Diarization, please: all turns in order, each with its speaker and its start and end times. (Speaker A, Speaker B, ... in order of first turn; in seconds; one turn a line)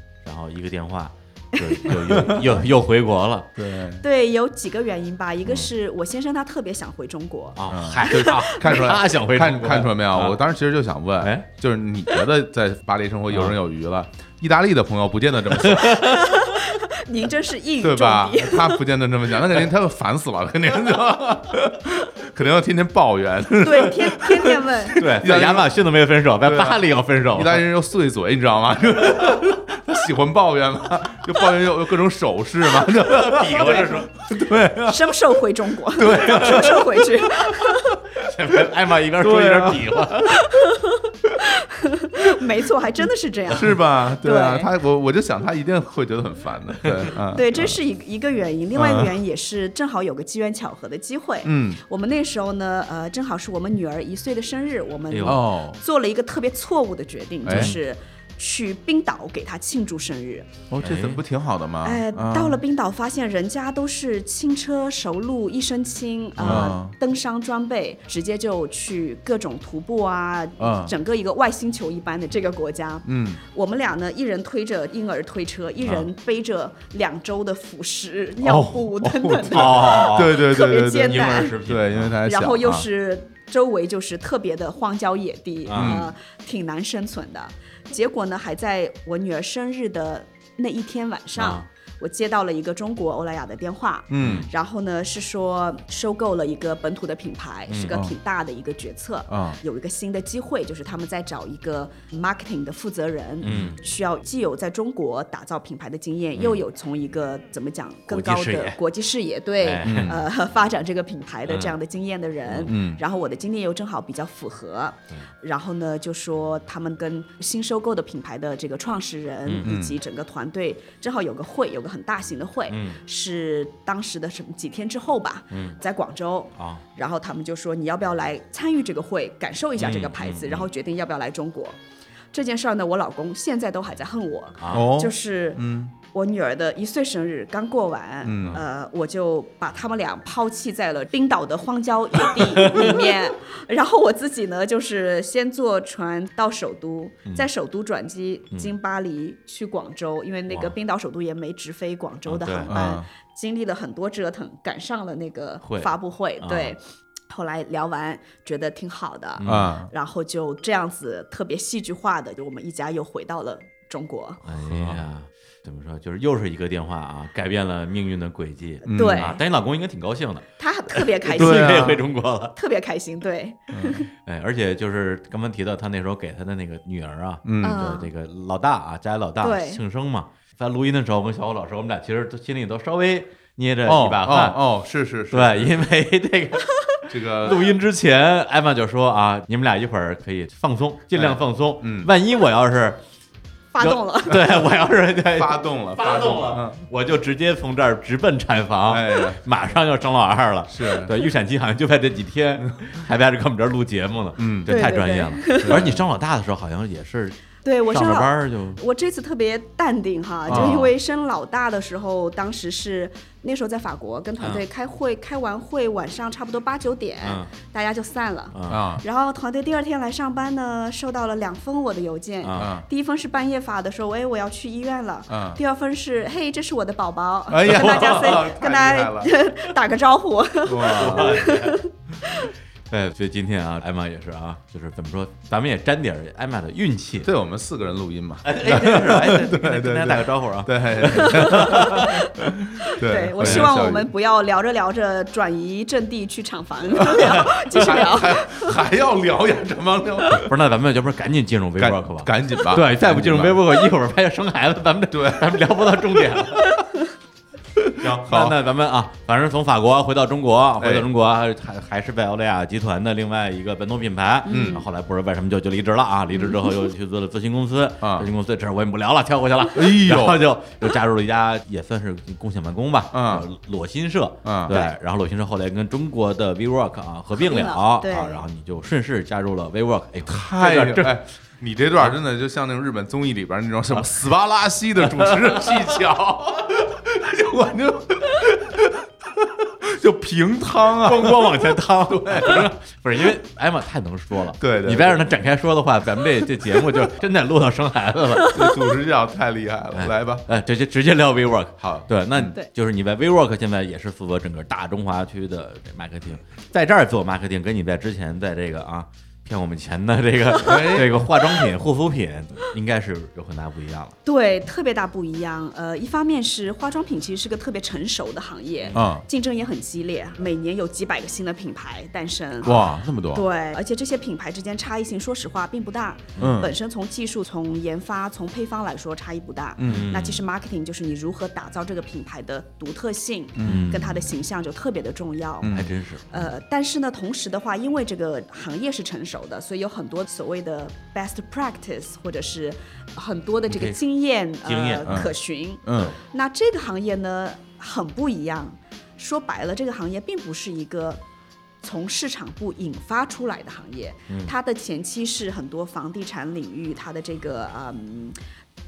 Speaker A: 0.2-3.5
Speaker B: 2.1-2.5
Speaker B: 3.5-4.0
Speaker C: 4.0-8.7
Speaker A: 7.5-10.4
Speaker B: 7.7-16.1
Speaker A: 11.2-11.5
Speaker A: 13.3-13.6
Speaker A: 15.7-16.2
Speaker C: 16.0-18.8
Speaker B: 17.8-25.7
Speaker C: 23.6-25.0
Speaker A: 24.9-27.6
Speaker B: 26.4-35.1
Speaker A: 33.0-34.1
Speaker C: 33.5-34.0
Speaker C: 34.8-38.0
Speaker B: 36.0-36.8
Speaker A: 36.0-37.0
Speaker A: 38.1-40.4
Speaker B: 39.2-40.1
Speaker C: 40.4-44.7
Speaker B: 43.5-47.8
Speaker A: 46.8-47.1
Speaker C: 47.3-60.5
Speaker B: 48.7-49.2
Speaker B: 51.4-51.8
Speaker A: 55.1-55.5
Speaker B: 55.2-55.8
Speaker B: 57.4-57.8
Speaker A: 57.5-57.8
Speaker B: 60.7-62.6
Speaker A: 60.8-61.2
Speaker C: 61.8-81.6
Speaker A: 66.4-66.8
Speaker B: 66.4-67.0
Speaker B: 70.6-70.9
Speaker B: 73.0-73.4
Speaker B: 78.4-82.8
Speaker A: 79.5-82.2
Speaker C: 82.2-131.8
Speaker A: 85.7-86.0
Speaker B: 85.7-86.1
Speaker A: 91.3-91.7
Speaker B: 94.1-94.5
Speaker A: 94.2-94.5
Speaker A: 97.7-98.0
Speaker B: 99.3-99.6
Speaker A: 103.4-103.8
Speaker B: 103.5-103.8
Speaker A: 106.3-106.6
Speaker A: 108.1-108.8
Speaker A: 109.6-110.2
Speaker B: 109.8-110.2
Speaker A: 111.5-111.8
Speaker A: 112.4-112.7
Speaker B: 112.6-113.0
Speaker A: 119.4-119.7
Speaker B: 119.6-120.0
Speaker A: 122.7-123.0
Speaker A: 125.5-125.8
Speaker A: 126.5-126.8
Speaker A: 129.8-130.7
Speaker C: 132.3-164.4
Speaker A: 134.6-134.9
Speaker B: 134.7-135.9
Speaker B: 138.2-138.6
Speaker A: 142.4-143.1
Speaker A: 150.5-150.7
Speaker A: 152.2-152.7
Speaker B: 152.7-153.1
Speaker A: 155.6-156.8
Speaker A: 159.4-159.7
Speaker B: 159.4-159.9
Speaker A: 164.4-172.6
Speaker B: 164.7-165.0
Speaker C: 168.8-169.4
Speaker B: 168.9-169.3
Speaker C: 170.6-172.0
Speaker B: 171.4-172.0
Speaker C: 172.5-174.1
Speaker B: 173.7-174.1
Speaker A: 174.2-184.6
Speaker B: 177.4-177.8
Speaker C: 177.6-178.1
Speaker C: 179.4-179.8
Speaker B: 183.8-185.9
Speaker A: 185.3-193.0
Speaker B: 187.1-187.7
Speaker B: 191.1-192.1
Speaker C: 193.7-194.5
Speaker A: 193.8-208.8
Speaker B: 195.3-196.8
Speaker B: 198.9-199.4
Speaker B: 200.7-201.1
Speaker B: 204.4-204.9
Speaker C: 204.7-205.8
Speaker B: 205.5-206.0
Speaker C: 207.6-232.5
Speaker B: 210.5-210.8
Speaker A: 210.5-210.9
Speaker A: 217.2-217.5
Speaker A: 218.5-218.9
Speaker B: 218.7-219.0
Speaker A: 222.4-222.7
Speaker B: 222.5-222.8
Speaker B: 225.3-225.6
Speaker B: 227.5-229.3
Speaker A: 227.7-228.4
Speaker B: 230.6-231.5
Speaker A: 230.8-231.8
Speaker A: 232.9-237.3
Speaker B: 237.2-244.1
Speaker A: 238.4-242.2
Speaker C: 241.4-242.3
Speaker C: 242.8-248.5
Speaker A: 243.4-243.7
Speaker B: 247.0-250.5
Speaker A: 247.1-248.0
Speaker A: 250.3-256.7
Speaker B: 251.8-253.7
Speaker B: 255.1-256.4
Speaker B: 257.8-258.6
Speaker A: 258.0-281.2
Speaker B: 260.8-261.1
Speaker C: 264.4-264.8
Speaker B: 264.5-264.8
Speaker C: 266.3-266.9
Speaker B: 268.0-268.3
Speaker B: 269.7-270.4
Speaker B: 273.1-273.5
Speaker B: 274.4-274.9
Speaker C: 277.4-278.4
Speaker B: 280.3-292.7
Speaker A: 285.0-285.9
Speaker A: 291.0-298.7
Speaker B: 294.6-295.4
Speaker B: 298.5-300.4
Speaker A: 299.9-314.1
Speaker B: 301.8-302.5
Speaker B: 310.6-311.2
Speaker C: 314.2-335.8
Speaker A: 318.8-319.1
Speaker B: 318.9-319.2
Speaker B: 322.6-323.4
Speaker A: 326.4-326.6
Speaker B: 326.4-326.7
Speaker B: 329.8-330.1
Speaker A: 329.8-330.4
Speaker B: 333.6-333.9
Speaker A: 333.6-334.3
Speaker B: 335.6-335.9
Speaker A: 335.7-336.5
Speaker C: 336.3-351.2
Speaker A: 343.7-344.0
Speaker A: 344.6-345.3
Speaker B: 345.1-345.3
Speaker B: 345.8-346.1
Speaker A: 345.9-346.2
Speaker C: 351.8-358.4
Speaker A: 354.3-354.5